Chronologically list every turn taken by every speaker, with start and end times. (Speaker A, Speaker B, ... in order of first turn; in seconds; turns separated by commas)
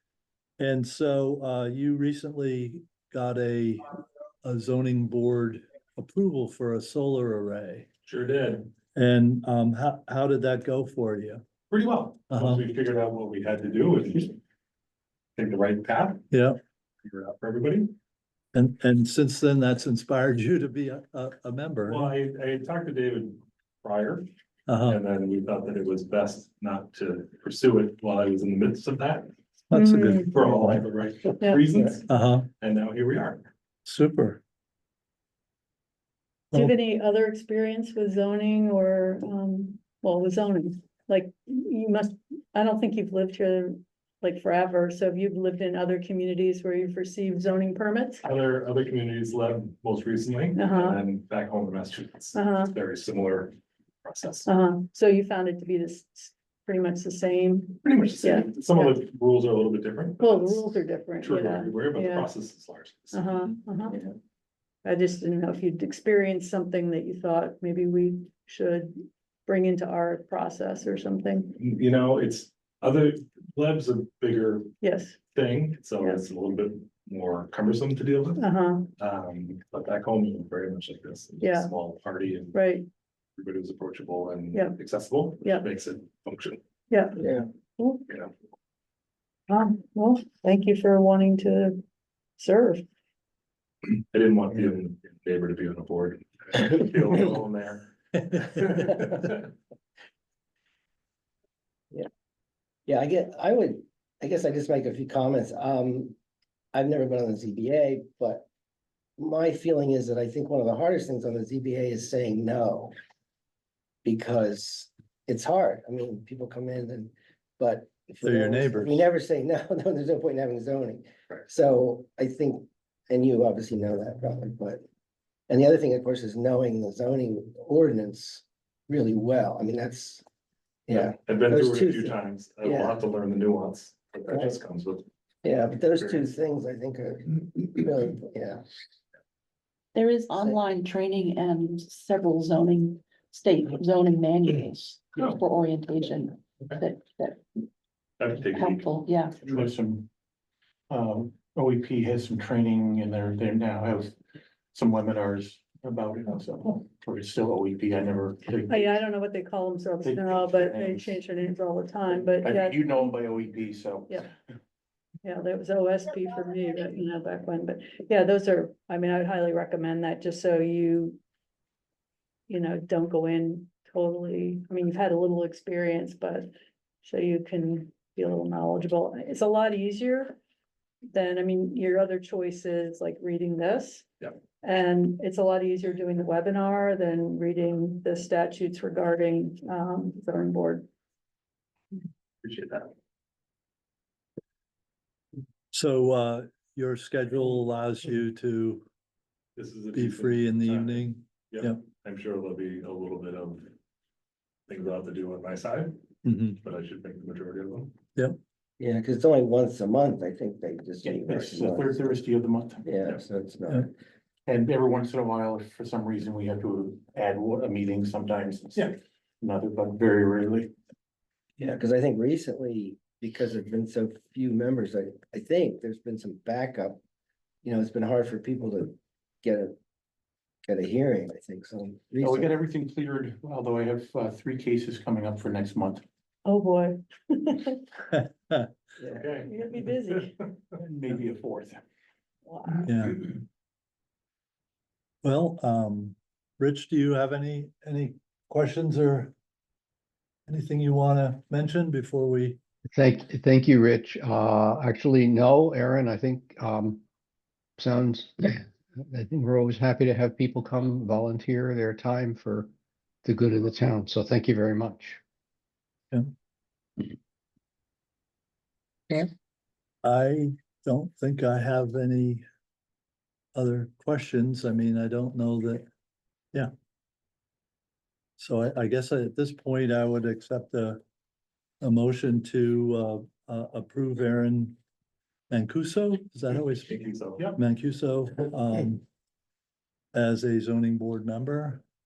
Speaker A: 0.6-7.9, Speaker B: 8.1-8.7, Speaker A: 8.9-11.4, Speaker B: 11.7-14.4, Speaker A: 12.3-12.6, Speaker B: 15.4-16.2, Speaker A: 16.3-16.6, Speaker B: 17.0-17.9, Speaker A: 18.5-22.1, Speaker B: 21.9-24.3, Speaker A: 24.7-25.0, Speaker B: 24.9-29.3, Speaker A: 29.7-30.9, Speaker C: 29.7-30.3, Speaker B: 30.2-33.5, Speaker C: 31.4-31.8, Speaker A: 32.1-32.5, Speaker A: 33.9-34.4, Speaker C: 36.5-48.2, Speaker B: 48.2-54.5, Speaker C: 50.5-51.0, Speaker C: 52.4-52.7, Speaker C: 54.5-59.0, Speaker B: 57.8-64.0, Speaker C: 60.2-62.3, Speaker C: 63.1-64.1, Speaker C: 64.8-71.6, Speaker B: 71.5-82.7, Speaker C: 74.8-75.2, Speaker C: 78.4-78.9, Speaker C: 81.4-81.7, Speaker C: 82.5-82.9, Speaker B: 83.4-86.6, Speaker C: 85.4-85.7, Speaker C: 86.9-87.2, Speaker D: 87.2-87.5, Speaker C: 87.8-88.1, Speaker C: 89.5-91.8, Speaker C: 92.4-92.8, Speaker B: 93.8-99.5, Speaker D: 102.9-106.2, Speaker D: 106.7-108.5, Speaker D: 109.2-112.9, Speaker D: 114.0-124.8, Speaker A: 118.2-119.0, Speaker D: 125.5-130.2, Speaker D: 130.9-133.0, Speaker B: 130.9-135.1, Speaker D: 135.4-138.6, Speaker B: 135.9-136.3, Speaker E: 139.9-147.4, Speaker B: 148.2-148.9, Speaker E: 148.5-149.4, Speaker F: 149.4-150.1, Speaker F: 150.9-154.2, Speaker F: 154.7-159.0, Speaker C: 158.7-163.1, Speaker F: 160.0-161.2, Speaker F: 162.4-164.3, Speaker C: 165.2-171.2, Speaker C: 172.5-176.5, Speaker C: 177.0-180.4, Speaker C: 181.1-184.1, Speaker C: 184.6-190.9, Speaker B: 192.4-192.9, Speaker A: 195.7-198.8, Speaker B: 199.6-203.7, Speaker A: 199.9-201.8, Speaker B: 204.7-206.0, Speaker A: 206.2-206.6, Speaker B: 206.6-207.9, Speaker D: 208.8-212.1, Speaker F: 211.0-212.9, Speaker D: 212.8-213.9, Speaker F: 214.5-220.7, Speaker D: 221.6-227.0, Speaker D: 227.6-229.8, Speaker D: 230.7-232.5, Speaker F: 232.2-236.0, Speaker C: 236.4-237.8, Speaker A: 238.1-238.7, Speaker B: 239.1-240.5, Speaker C: 239.4-240.3, Speaker F: 240.8-241.8, Speaker C: 242.4-242.9, Speaker A: 242.9-243.3, Speaker A: 245.2-249.3, Speaker A: 250.5-252.6, Speaker G: 252.9-257.0, Speaker G: 257.8-262.7, Speaker G: 263.2-265.2, Speaker A: 270.0-272.4, Speaker A: 273.6-275.9, Speaker A: 278.4-281.0, Speaker A: 281.8-284.8, Speaker A: 285.5-287.0, Speaker B: 286.9-287.6, Speaker A: 287.6-289.0, Speaker A: 290.1-291.8